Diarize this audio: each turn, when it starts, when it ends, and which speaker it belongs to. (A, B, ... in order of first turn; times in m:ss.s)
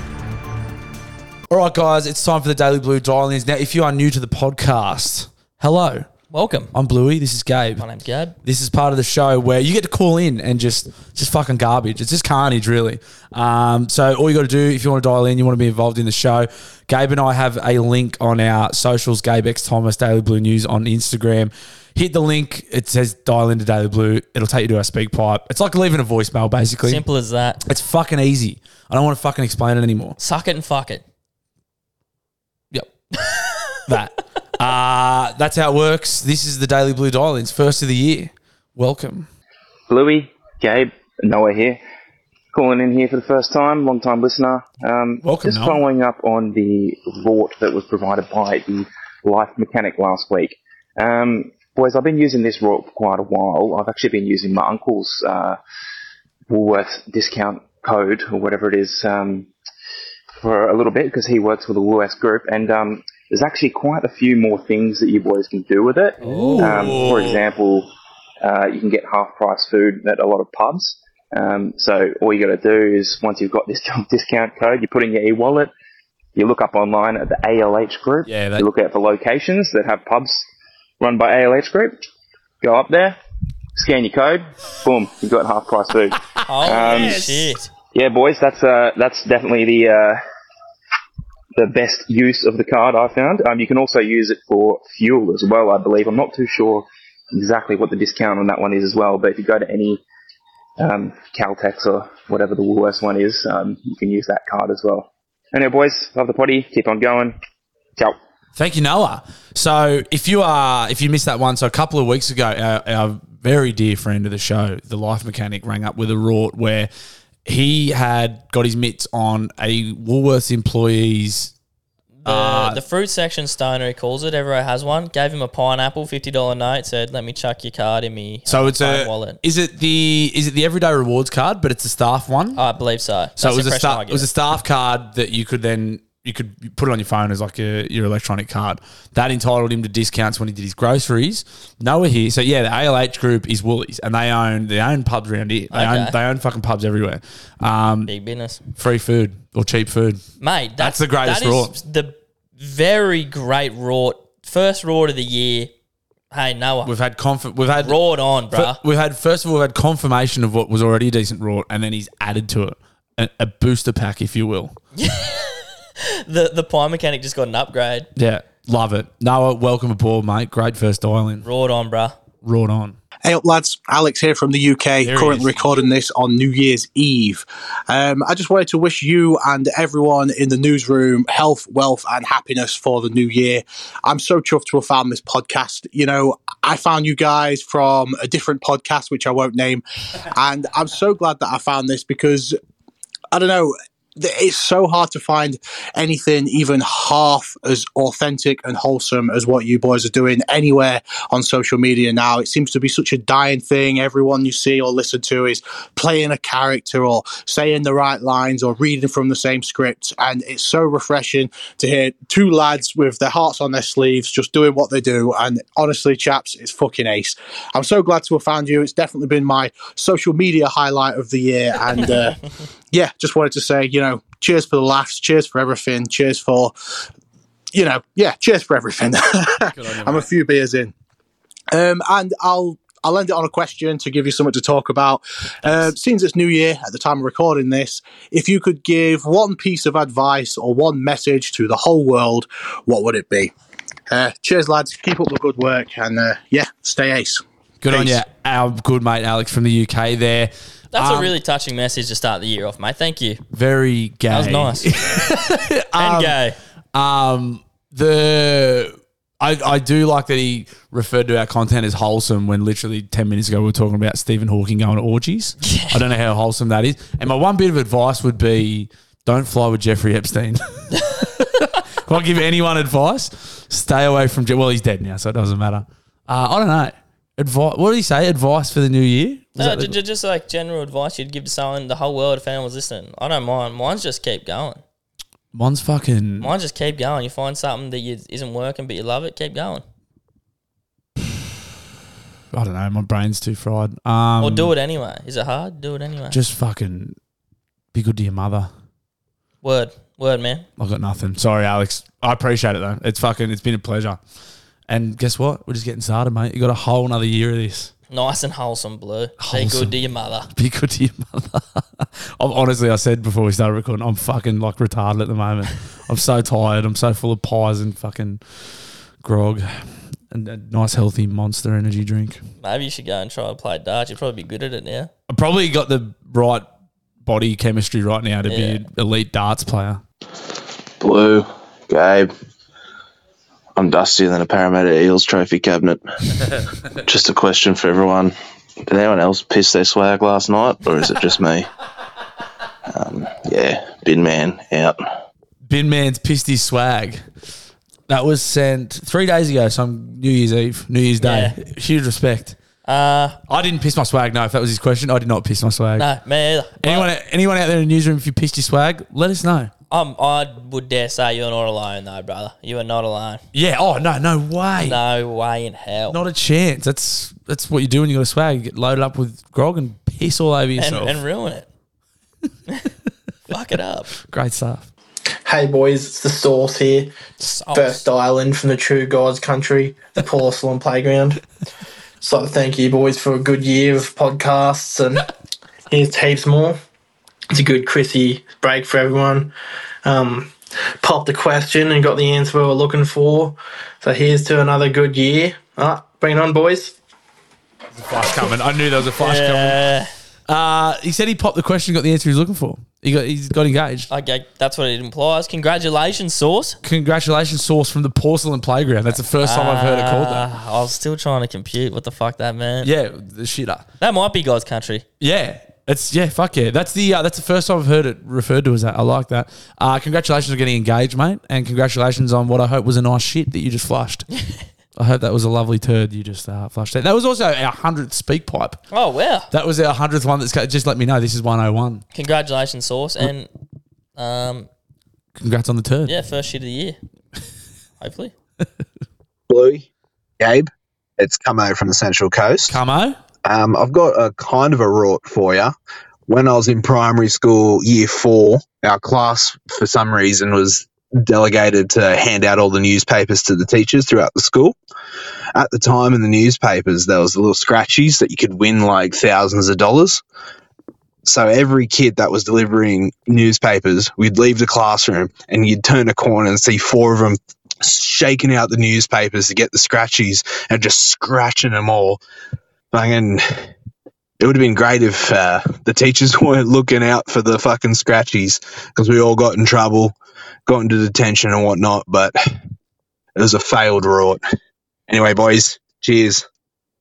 0:01.5-0:06.1 A
0:06.3-0:06.7 B
0:06.7-0:07.8 A
0:07.8-0:08.4 B
0:08.4-0:27.0 A
0:26.8-0:27.6 B
0:27.6-0:30.2 A
0:30.2-0:31.0 B
0:33.1-0:33.8 B
0:33.9-0:39.3 A
0:39.9-0:41.8 C
0:42.5-0:55.6 C
0:45.2-0:45.8 A
0:56.5-0:59.5 C
1:00.4-1:07.9 C
1:06.2-1:07.4 A
1:06.2-1:07.0 B
1:08.4-1:15.7 C
1:16.3-1:20.5 C
1:18.2-1:18.6 A
1:21.0-1:22.0 C
1:22.6-1:23.2 C
1:23.8-1:27.2 C
1:26.4-1:27.7 B
1:26.7-1:27.4 A
1:27.9-1:30.2 C
1:31.5-1:40.0 C
1:40.8-1:47.4 C
1:48.6-1:56.9 A
1:57.4-2:01.5 A
2:02.2-2:09.4 B
2:02.2-2:02.8 A
2:08.5-2:12.6 A
2:12.6-2:14.3 B
2:13.4-2:28.1 A
2:25.7-2:26.2 B
2:28.1-2:28.6 B
2:28.8-2:30.2 A
2:30.4-2:35.7 B
2:30.8-2:31.7 A
2:36.3-2:36.9 B
2:36.8-2:38.0 A
2:37.8-2:38.8 B
2:38.5-2:44.8 A
2:44.9-2:48.1 B
2:48.2-2:51.4 A
2:51.4-2:52.2 B
2:52.4-2:53.0 A
2:53.2-3:12.6 D
2:55.0-2:55.7 A
3:13.3-3:46.7 D
3:47.7-3:50.9 D
3:49.6-3:50.3 A
3:51.7-4:03.5 D
3:55.6-3:55.9 A
4:04.1-4:08.2 D
4:07.8-4:11.3 A
4:10.9-4:13.4 B
4:13.5-4:16.4 A
4:14.3-4:15.3 B
4:16.0-4:16.6 B
4:16.9-4:40.0 A
4:25.6-4:26.0 B
4:39.6-4:44.8 B
4:45.5-4:46.5 A
4:46.4-4:49.8 B
4:52.5-4:54.7 A
4:54.4-4:56.4 B
4:56.3-4:57.2 A
4:57.9-4:58.7 A
4:59.6-5:00.7 B
5:00.8-5:04.2 A
5:04.9-5:07.9 A
5:08.1-5:10.5 B
5:09.4-5:09.9 A
5:10.5-5:18.4 A
5:19.2-5:19.7 A
5:20.3-5:22.4 A
5:22.6-5:25.1 B
5:25.3-5:26.7 A
5:27.2-5:30.0 A
5:28.5-5:28.8 B
5:31.0-5:32.3 E
5:33.8-5:36.2 E
5:37.0-5:38.4 E
5:38.9-5:41.7 E
5:42.9-5:45.0 E
5:45.7-5:47.2 A
5:48.1-5:52.6 A
5:51.2-5:51.6 B
5:52.8-5:53.4 B
5:53.5-5:56.1 A
5:56.0-5:57.1 B
5:56.8-5:59.7 A
5:59.9-6:03.4 B
6:03.5-6:05.0 A
6:04.8-6:06.2 B
6:06.1-6:11.2 A
6:10.8-6:11.7 B
6:13.5-6:14.1 B
6:14.2-6:14.9 A
6:15.4-6:17.2 F
6:17.4-6:18.0 B
6:17.7-6:21.4 F
6:22.2-6:25.3 F
6:25.9-6:26.8 F
6:27.5-6:29.5 F
6:30.0-6:37.0 F
6:37.9-6:39.8 A
6:39.2-6:40.1 B
6:40.5-6:44.1 A
6:44.1-6:46.8 B
6:46.8-6:50.5 A
6:49.4-6:52.9 B
6:52.8-6:53.9 A
6:54.0-6:55.0 B
6:55.2-7:04.3 A
7:04.9-7:08.8 A
7:08.9-7:09.5 B
7:09.5-7:12.0 A
7:12.1-7:13.5 B
7:14.2-7:14.7 B
7:15.4-7:16.1 A
7:16.0-7:17.0 B
7:18.0-7:18.3 B
7:19.5-7:19.8 G
7:20.4-7:22.8 G
7:22.7-7:23.2 A
7:23.4-7:25.7 G
7:26.3-7:34.8 G
7:35.5-7:40.2 G
7:41.2-7:52.2 G
7:52.9-7:53.7 G
7:54.4-8:00.1 G
8:00.7-8:02.4 G
8:03.4-8:04.4 G
8:05.1-8:06.4 G